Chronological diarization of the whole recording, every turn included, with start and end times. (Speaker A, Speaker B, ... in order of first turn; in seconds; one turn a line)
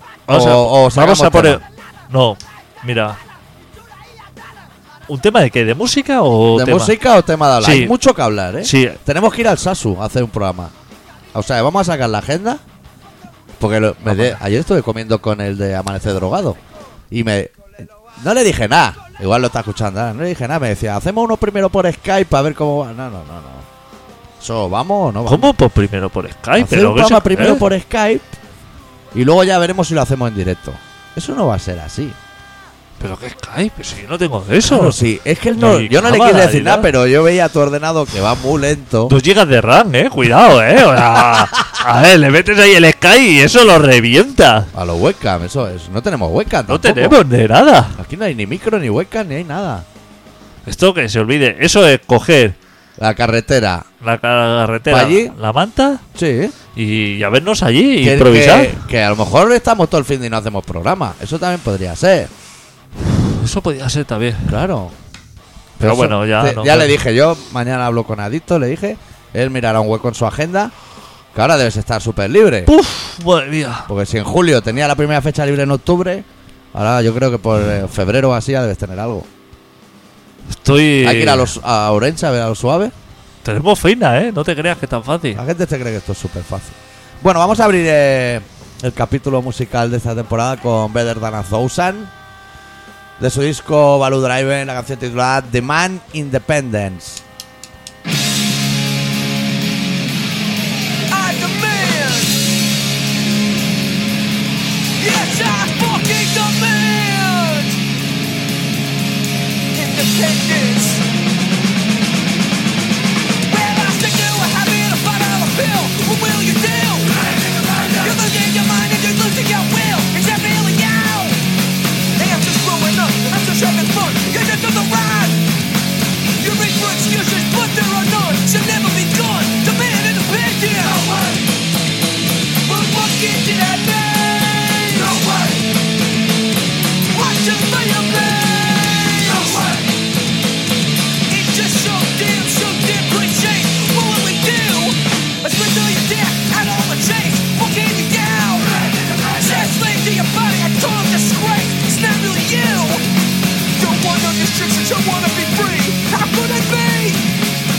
Speaker A: 0.3-1.6
Speaker B: 0.3-3.2
Speaker B: 5.1-7.0
Speaker A: 6.5-10.7
Speaker B: 7.6-8.0
Speaker B: 8.6-9.0
Speaker A: 11.3-12.6
Speaker A: 13.6-16.6
Speaker B: 14.1-14.4
Speaker A: 17.1-23.7
Speaker A: 24.4-25.5
Speaker B: 25.2-27.6
Speaker A: 26.6-28.4
Speaker A: 29.1-32.2
Speaker B: 33.0-35.0
Speaker A: 34.6-39.1
Speaker B: 35.5-36.9
Speaker B: 39.1-44.7
Speaker A: 41.1-41.5
Speaker A: 44.7-47.2
Speaker B: 46.7-48.0
Speaker A: 48.0-49.9
Speaker B: 50.6-52.5
Speaker A: 53.0-53.9
Speaker B: 54.0-56.0
Speaker A: 54.9-55.3
Speaker A: 56.1-56.5
Speaker B: 56.7-58.8
Speaker A: 58.0-62.3
Speaker B: 63.4-64.6
Speaker A: 64.5-64.9
Speaker A: 65.8-70.7
Speaker B: 65.8-66.9
Speaker A: 71.3-72.7
Speaker B: 72.7-73.9
Speaker A: 73.9-79.3
Speaker B: 80.5-81.5
Speaker A: 81.0-82.9
Speaker B: 83.4-85.4
Speaker A: 85.3-92.1
Speaker A: 93.2-97.2
Speaker C: 101.1-102.5
Speaker C: 105.0-107.8
Speaker C: 109.7-111.0
Speaker C: 113.5-121.4
Speaker C: 122.2-125.5
Speaker C: 126.4-131.5
Speaker C: 132.6-135.6
Speaker C: 137.1-139.9
Speaker C: 141.3-153.1
Speaker C: 153.7-157.3